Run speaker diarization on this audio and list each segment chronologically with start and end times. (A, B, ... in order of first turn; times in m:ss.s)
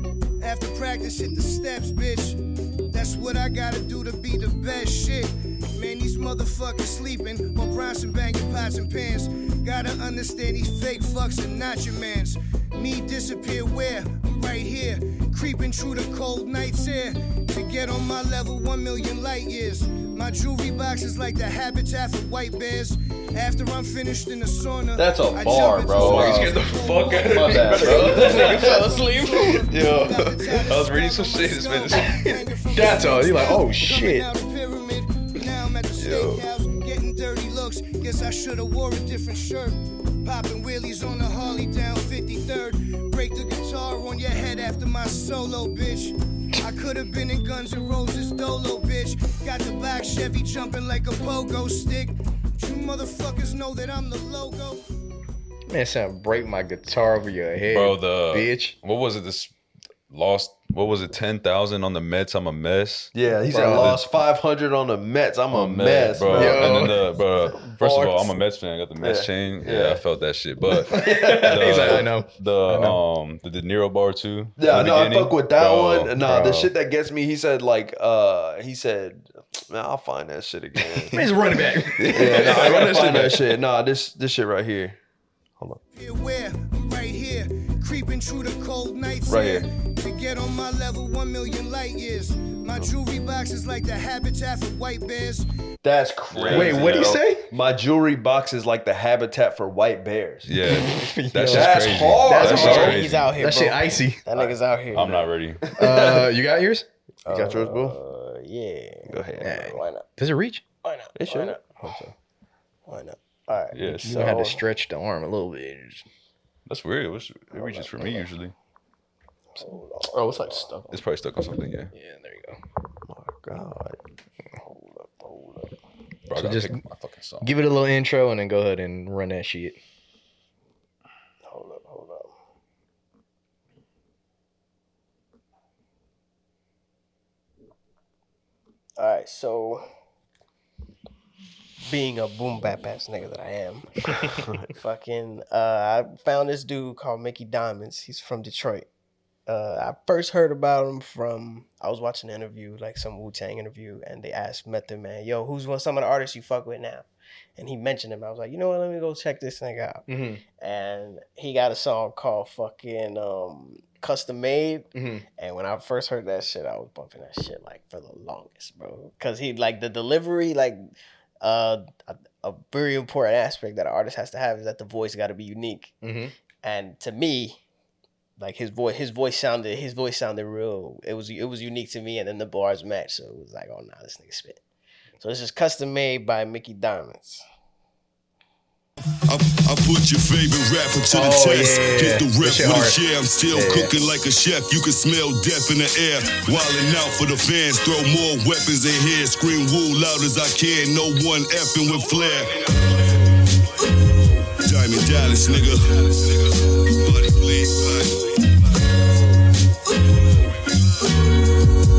0:00.4-0:02.4 A
0:02.9-0:54.8 A
0:25.0-0:26.6 B
0:26.0-0:29.6 C
0:27.2-0:28.8 B
0:29.7-0:30.4 B
0:30.5-0:32.3 D
0:32.0-0:34.3 C
0:36.0-0:36.4 D
0:55.7-0:58.7 C
0:57.7-0:59.5 D
1:00.1-1:03.1 D
1:03.1-1:08.3 B
1:03.5-1:04.0 C
1:05.5-1:16.1 D
1:06.3-1:07.0 C
1:09.0-1:10.0 B
1:10.7-1:13.0 C
1:10.7-1:12.1 B
1:14.6-1:25.0 B
1:16.2-1:16.7 C
1:21.1-1:23.5 C
1:25.9-1:35.5 A
1:29.3-1:29.7 B
1:35.8-1:40.5 B
1:36.3-1:37.1 D
1:36.5-1:37.5 C
1:40.4-1:43.3 D
1:40.6-1:44.2 C
1:41.4-1:43.1 B
1:42.4-1:45.3 E
1:44.9-1:45.6 D
1:45.6-1:46.4 B
1:45.8-1:46.9 C
1:47.3-1:48.0 B
1:47.3-1:50.1 E
1:49.1-1:49.7 B
1:49.4-1:50.6 C
1:50.8-1:51.6 E
1:51.2-1:51.8 B
1:51.8-1:52.1 C
1:52.9-1:54.6 E
1:53.7-1:54.2 D
1:53.8-1:54.1 B
1:53.9-1:56.0 C
1:56.7-1:58.5 D
1:57.5-1:58.2 E
1:59.6-2:00.7 E
2:00.1-2:00.9 C
2:00.9-2:01.9 D
2:01.9-2:02.6 C
2:03.0-2:04.0 B
2:04.6-2:05.7 E
2:06.3-2:07.5 D
2:06.4-2:06.8 C
2:07.4-2:09.8 C
2:11.4-2:12.3 E
2:19.0-2:19.8 E
2:21.8-2:28.9 E
2:24.3-2:24.7 B
2:29.5-2:40.1 E
2:40.1-2:40.4 C
2:40.6-2:50.8 E
2:45.0-2:45.2 C
2:51.4-2:56.0 E
2:56.0-2:56.3 C
2:56.6-2:57.6 E
2:58.4-3:04.6 E
3:05.2-3:07.4 E
3:09.3-3:23.6 F
3:11.1-3:13.0 C
3:13.5-3:13.9 C
3:24.6-3:28.6 F
3:30.3-3:31.1 F